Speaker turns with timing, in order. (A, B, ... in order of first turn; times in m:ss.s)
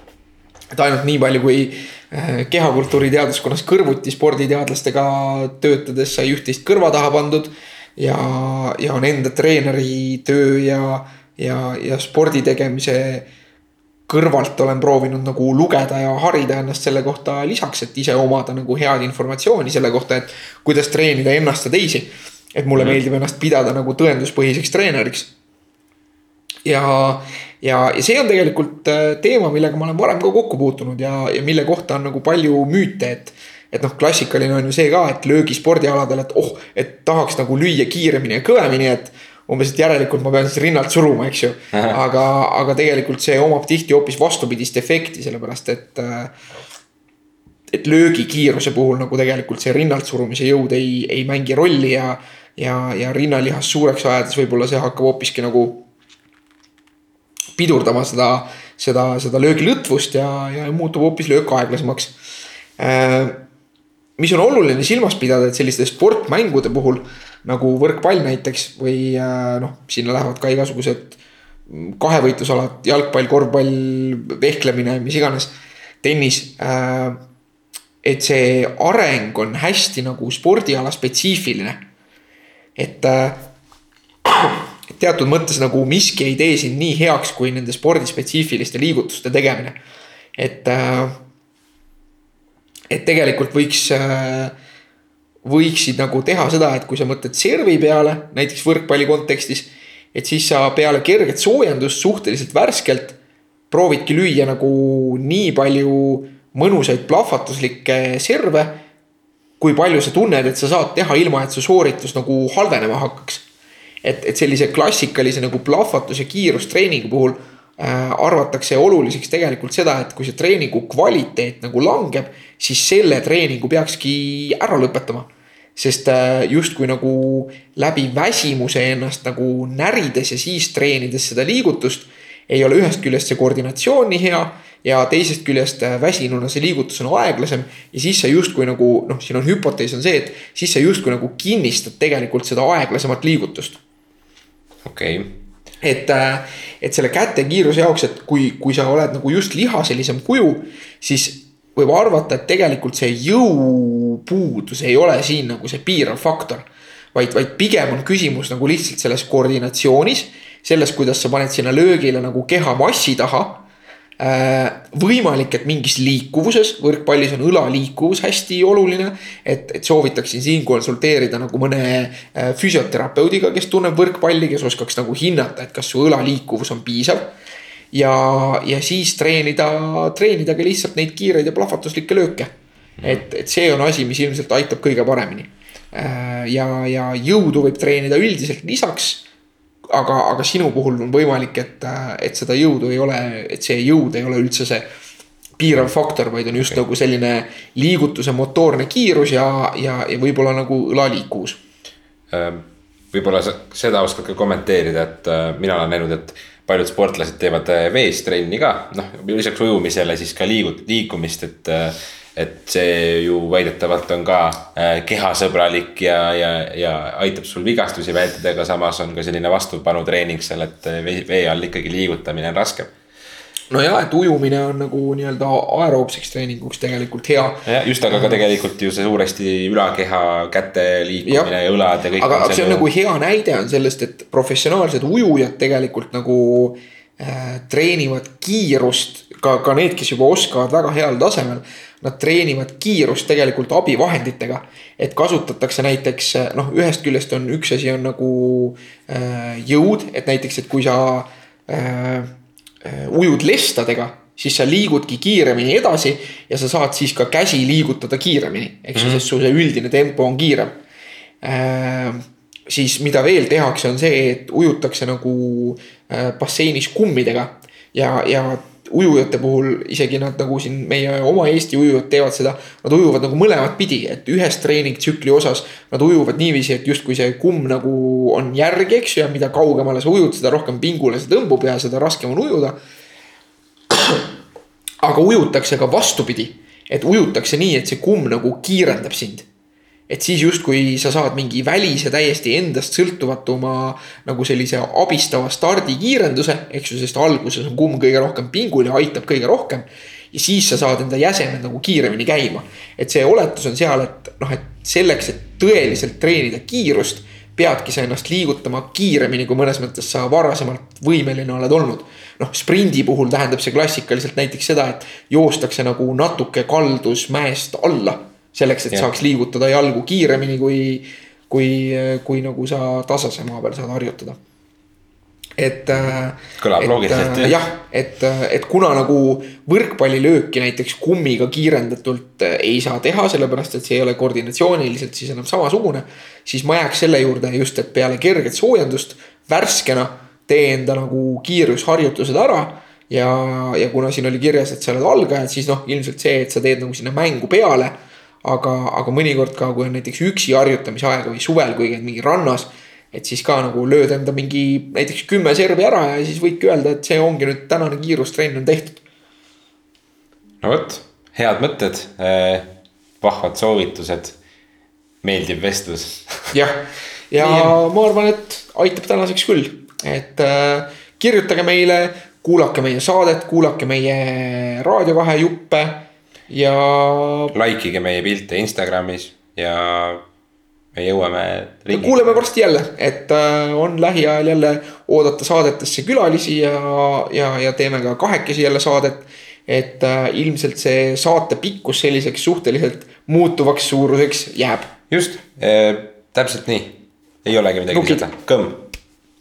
0:00.7-0:13.3 A
0:14.1-0:25.3 A
0:26.6-0:46.3 A
0:41.7-0:42.0 B
0:47.7-0:55.8 A
0:57.6-1:02.2 A
1:02.8-1:03.4 A
1:04.2-1:17.2 A
1:18.0-1:21.8 A
1:22.8-1:23.5 A
1:24.3-1:29.8 A
1:30.4-1:31.2 A
1:32.9-1:34.5 A
1:35.4-1:43.2 A
1:43.7-1:48.8 A
1:49.6-1:53.4 A
1:54.0-2:23.8 A
2:24.8-2:25.4 B
2:25.8-2:43.6 A
2:44.2-2:57.3 A
2:57.9-3:02.5 A
3:03.0-3:09.2 A
3:09.9-3:14.9 A
3:15.6-3:21.6 A
3:22.3-3:42.9 B
3:43.7-3:48.4 A
3:47.6-3:52.9 B
3:51.2-3:51.5 A
3:52.2-4:20.8 A
4:18.9-4:19.2 B
4:21.4-4:42.8 A
4:45.0-4:49.4 A
4:50.1-5:24.4 A
5:25.6-5:59.0 A
5:25.9-5:27.6 B
6:00.6-6:04.4 B
6:05.2-6:06.5 B
6:06.5-6:17.5 A
6:07.4-6:07.8 B
6:17.5-6:20.2 B
6:20.9-6:22.4 B
6:21.9-6:34.9 A
6:35.1-6:38.9 B
6:37.9-6:38.2 A